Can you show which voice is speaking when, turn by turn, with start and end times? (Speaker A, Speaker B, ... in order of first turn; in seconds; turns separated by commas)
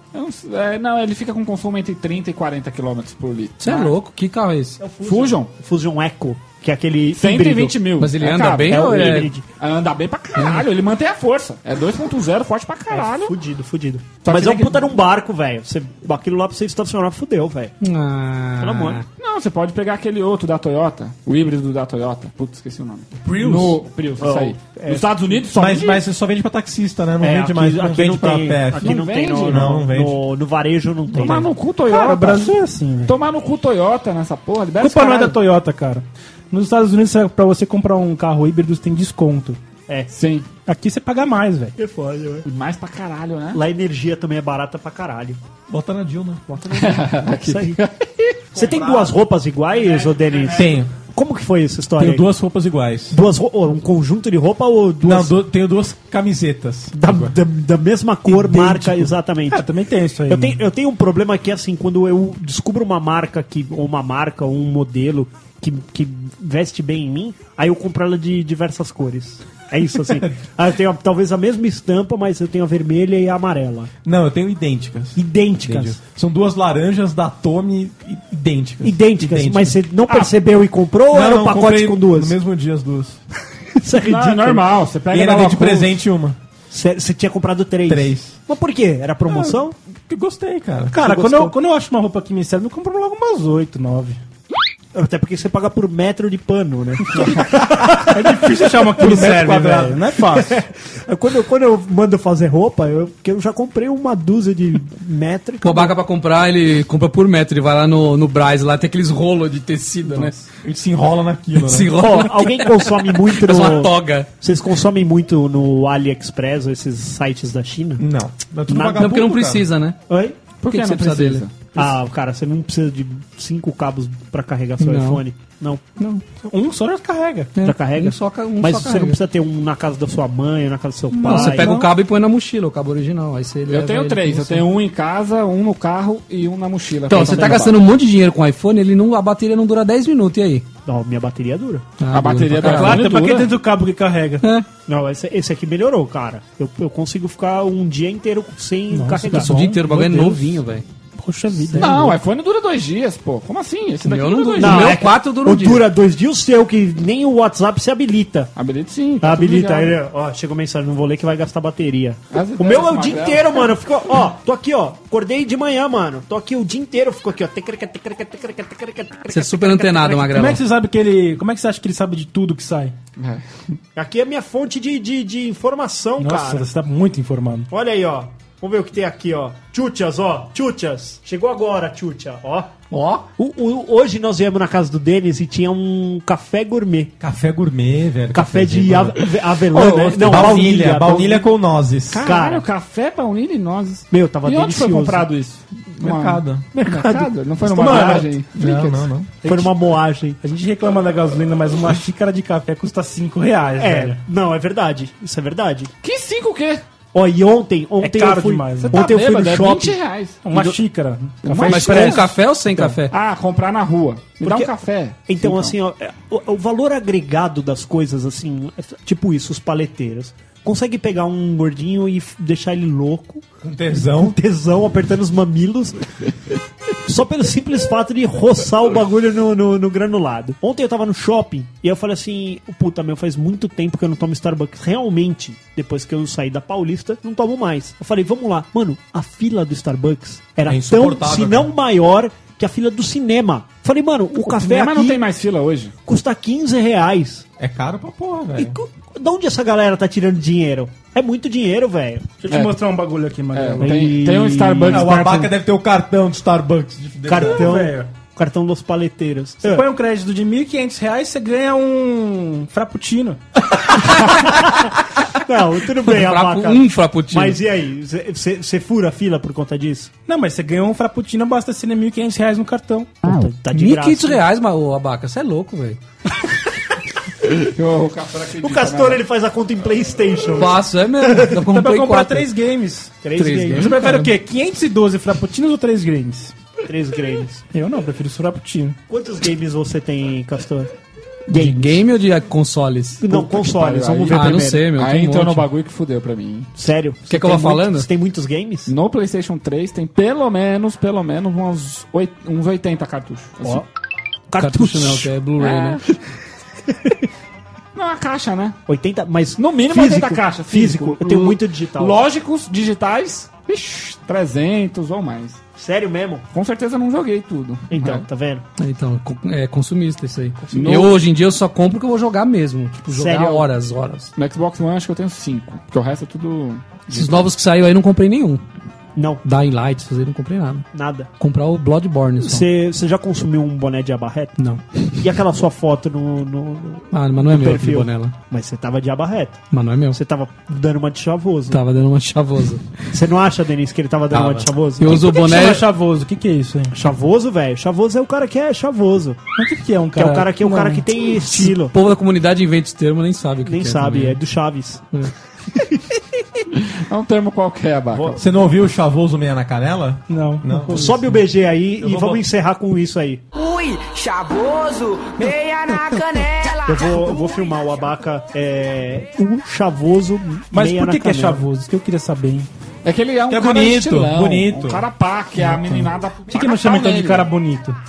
Speaker A: 0.1-3.9, Speaker B: 3.6-4.8, Speaker C: 4.8-7.8, Speaker A: 5.0-5.5, Speaker A: 7.1-13.3, Speaker B: 8.0-9.3, Speaker C: 8.7-9.4, Speaker B: 10.4-10.6, Speaker C: 12.9-17.8, Speaker A: 14.2-14.8, Speaker B: 17.8-19.0, Speaker C: 18.6-19.0, Speaker A: 19.2-26.0, Speaker D: 23.2-23.8, Speaker C: 24.2-25.4, Speaker D: 25.6-30.2, Speaker C: 27.2-31.5, Speaker A: 28.8-29.9, Speaker A: 31.1-35.4, Speaker E: 31.9-33.1, Speaker E: 34.8-39.6, Speaker A: 40.1-40.5, Speaker E: 40.6-41.8, Speaker C: 41.8-42.5, Speaker A: 42.5-43.6, Speaker C: 43.5-45.4, Speaker D: 45.7-46.4, Speaker C: 46.5-47.8, Speaker A: 46.7-48.4, Speaker C: 48.5-52.3, Speaker D: 48.5-49.2, Speaker D: 50.5-50.9, Speaker D: 52.0-53.2, Speaker C: 53.1-55.4, Speaker D: 55.0-57.3, Speaker C: 56.9-59.6, Speaker E: 58.3-60.6, Speaker C: 60.3-73.9, Speaker D: 70.1-70.3, Speaker D: 74.0-79.8, Speaker C: 75.2-76.0, Speaker C: 78.8-82.4, Speaker D: 81.1-83.2, Speaker C: 83.8-84.7, Speaker A: 84.0-86.0, Speaker D: 85.1-86.4, Speaker C: 86.7-89.8, Speaker D: 87.9-88.4, Speaker D: 90.1-91.0, Speaker E: 90.9-94.2, Speaker C: 91.0-91.5, Speaker C: 94.9-98.5, Speaker E: 98.1-100.5, Speaker D: 99.0-100.0, Speaker C: 100.3-105.9, Speaker B: 105.6-110.4, Speaker D: 110.6-112.0, Speaker B: 111.6-114.3, Speaker C: 112.0-118.0, Speaker D: 118.0-119.7, Speaker C: 118.7-119.2, Speaker B: 119.0-120.0, Speaker C: 120.1-120.4, Speaker A: 120.6-121.9, Speaker B: 120.6-121.5, Speaker C: 121.7-125.8, Speaker B: 124.8-125.2, Speaker E: 126.3-127.5, Speaker B: 127.5-129.2, Speaker C: 127.6-131.8, Speaker E: 131.1-131.9, Speaker B: 131.2-134.7, Speaker A: 133.7-137.8, Speaker B: 137.1-140.7, Speaker C: 140.9-141.8, Speaker B: 142.0-143.1, Speaker A: 142.1-143.5, Speaker E: 142.6-144.4, Speaker C: 144.9-150.6, Speaker B: 148.9-150.9, Speaker E: 149.0-150.4, Speaker E: 151.2-152.2, Speaker B: 151.5-152.1, Speaker A: 151.8-155.1, Speaker B: 154.1-155.9, Speaker C: 154.6-158.5, Speaker A: 158.6-159.9, Speaker C: 159.2-170.3, Speaker A: 162.3-163.7, Speaker B: 169.3-170.6, Speaker E: 170.3-172.9, Speaker A: 173.2-173.6, Speaker C: 173.9-176.7, Speaker E: 176.2-177.7, Speaker C: 177.7-182.7, Speaker B: 182.9-183.3, Speaker C: 183.4-187.1, Speaker D: 187.2-189.3, Speaker C: 188.3-191.5, Speaker A: 189.7-190.4, Speaker D: 190.2-192.2, Speaker A: 192.1-199.1, Speaker C: 192.2-192.6, Speaker C: 194.1-195.3, Speaker D: 196.0-196.7, Speaker C: 196.7-198.3, Speaker D: 197.7-199.3, Speaker E: 199.4-199.7, Speaker C: 199.4-200.4, Speaker E: 200.4-204.2, Speaker C: 203.8-205.9, Speaker A: 206.0-206.8, Speaker C: 207.1-209.9, Speaker E: 208.0-209.0, Speaker A: 208.8-210.4, Speaker E: 210.4-212.9, Speaker B: 211.4-213.1, Speaker A: 211.6-212.2, Speaker C: 211.7-212.2, Speaker A: 213.1-215.7, Speaker C: 214.4-214.7, Speaker C: 215.2-226.2, Speaker D: 223.6-224.4, Speaker C: 227.1-245.2, Speaker D: 240.6-241.7, Speaker A: 244.4-245.9, Speaker C: 246.1-247.4, Speaker D: 247.6-248.8, Speaker C: 248.6-252.3, Speaker E: 252.4-254.0, Speaker A: 252.5-252.8, Speaker A: 253.5-255.5, Speaker C: 253.8-255.2, Speaker D: 254.9-257.7, Speaker C: 257.3-259.9, Speaker E: 257.4-258.1, Speaker E: 259.6-263.4, Speaker C: 263.9-264.9, Speaker C: 265.4-270.1, Speaker B: 266.1-267.6, Speaker E: 270.3-273.2, Speaker C: 273.2-274.4, Speaker B: 273.7-276.0, Speaker A: 277.5-279.2, Speaker C: 278.6-281.6, Speaker B: 280.6-282.5, Speaker E: 281.6-286.5, Speaker C: 283.2-283.9, Speaker B: 283.3-284.4, Speaker C: 286.8-287.6, Speaker E: 287.7-289.0, Speaker C: 289.1-290.9, Speaker C: 291.5-292.0, Speaker B: 291.5-293.7, Speaker C: 293.2-294.9, Speaker A: 293.6-296.7, Speaker B: 294.3-295.6, Speaker C: 296.8-298.9, Speaker B: 297.3-298.1, Speaker A: 298.9-303.8, Speaker C: 304.5-305.3, Speaker B: 304.6-306.1, Speaker A: 305.6-306.0, Speaker C: 306.9-307.2, Speaker A: 307.9-308.8, Speaker C: 308.9-312.2, Speaker A: 309.6-315.6, Speaker C: 315.8-316.4, Speaker A: 316.5-318.3, Speaker C: 317.9-318.6, Speaker B: 318.8-324.3, Speaker A: 320.7-321.2, Speaker C: 323.1-323.7, Speaker A: 324.4-327.4, Speaker B: 327.1-328.6, Speaker C: 329.1-329.4, Speaker B: 329.4-330.9, Speaker C: 330.9-331.3, Speaker B: 331.4-332.6, Speaker C: 332.4-334.6, Speaker B: 334.6-335.1, Speaker C: 335.1-341.8, Speaker B: 337.1-338.3, Speaker B: 339.7-340.2, Speaker B: 341.7-342.9, Speaker C: 343.1-345.3, Speaker B: 344.3-345.9, Speaker E: 345.1-347.0, Speaker C: 346.9-349.4, Speaker E: 349.6-351.1, Speaker C: 350.1-351.9, Speaker B: 351.4-354.4, Speaker C: 353.6-355.1, Speaker C: 355.7-356.0, Speaker A: 356.7-358.4, Speaker D: 358.4-361.4, Speaker E: 360.3-360.7, Speaker C: 360.7-363.4, Speaker D: 362.0-362.4, Speaker F: 363.5-367.7, Speaker C: 366.9-371.6, Speaker E: 370.7-372.7, Speaker A: 373.1-377.5, Speaker D: 373.5-375.1, Speaker E: 376.5-378.0